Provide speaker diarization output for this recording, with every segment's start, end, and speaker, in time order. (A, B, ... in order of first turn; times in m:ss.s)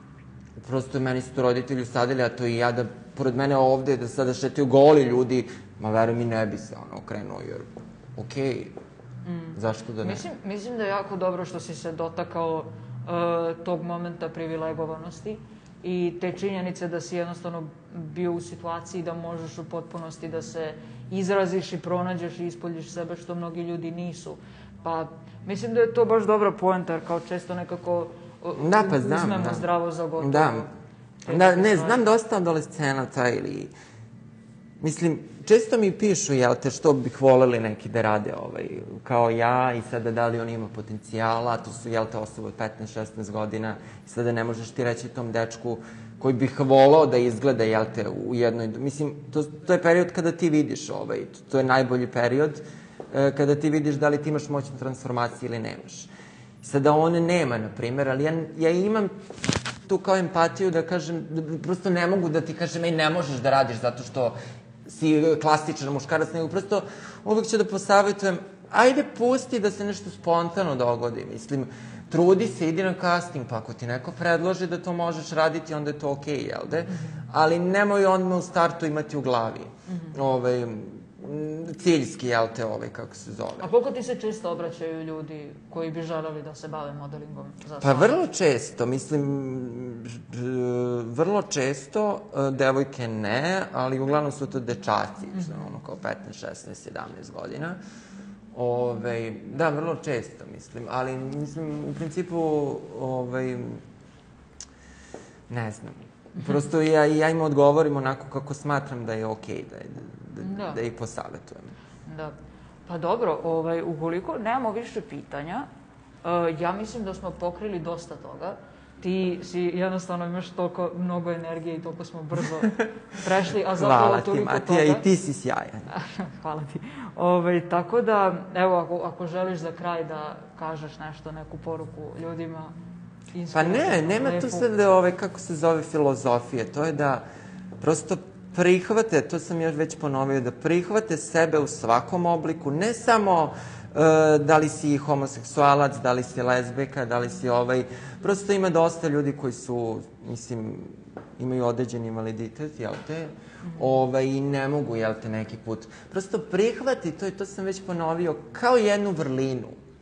0:00.6-0:08.8 A
0:09.2-0:30.7 B
0:09.6-0:10.2 A
0:28.6-0:30.7 A
0:31.2-0:32.0 B
0:31.3-0:33.7 A
0:34.8-0:56.1 A
0:56.6-0:59.1 A
0:59.8-1:23.7 A
1:23.6-1:28.2 B
1:27.8-1:37.8 A
1:35.4-1:35.6 B
1:38.5-1:43.8 A
1:45.5-1:51.8 A
1:50.4-1:50.8 B
1:52.1-1:52.3 B
1:52.9-1:55.7 B
1:56.2-2:05.0 B
2:03.7-2:05.8 A
2:05.9-2:12.7 B
2:13.3-2:14.7 B
2:13.5-2:17.2 A
2:17.8-2:39.8 A